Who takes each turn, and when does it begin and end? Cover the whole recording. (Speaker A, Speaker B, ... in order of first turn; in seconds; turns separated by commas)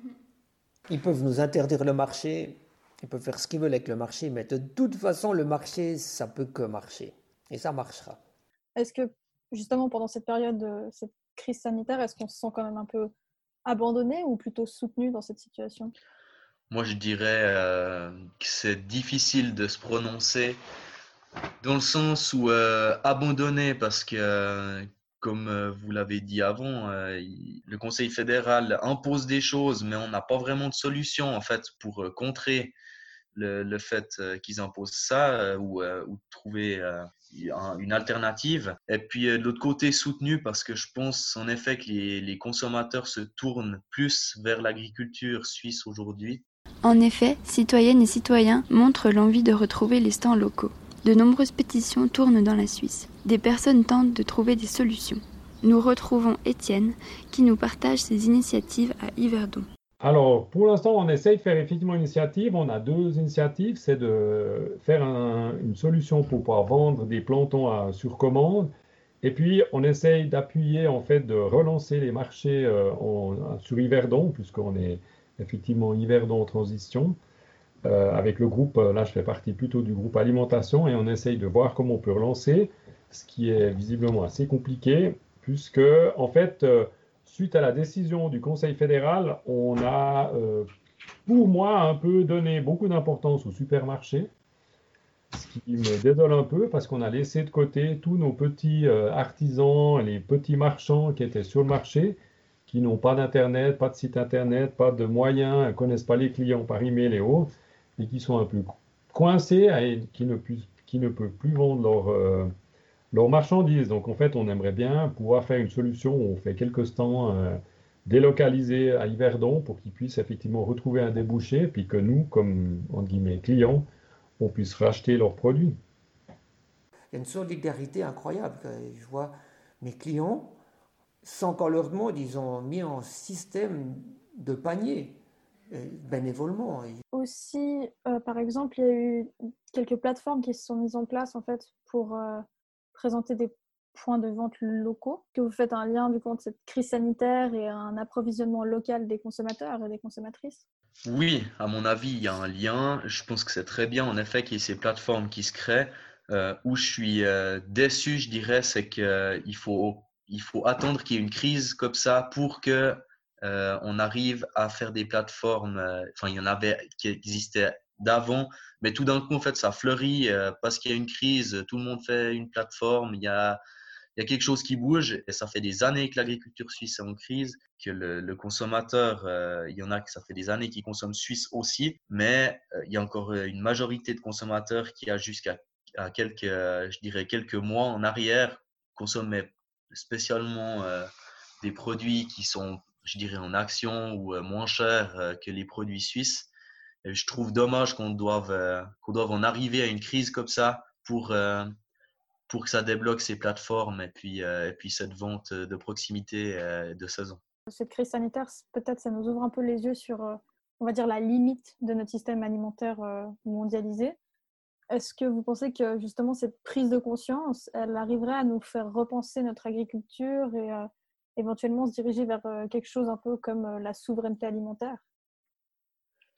Speaker A: 0.9-8.2, Speaker B: 8.8-13.1, Speaker B: 13.7-15.9, Speaker C: 16.7-20.6, Speaker C: 21.6-32.8, Speaker C: 33.4-46.4, Speaker D: 46.8-59.7, Speaker E: 60.0-68.7, Speaker E: 69.2-77.2, Speaker E: 77.8-90.7, Speaker E: 91.3-94.3, Speaker E: 95.3-112.5, Speaker E: 113.1-123.8, Speaker E: 124.4-125.8, Speaker A: 127.1-130.6, Speaker A: 131.2-137.0, Speaker B: 137.1-150.6, Speaker C: 151.1-173.6, Speaker C: 174.2-191.1, Speaker C: 191.6-196.5, Speaker C: 197.0-201.8, Speaker C: 202.5-207.4, Speaker B: 207.7-214.2, Speaker B: 214.9-225.0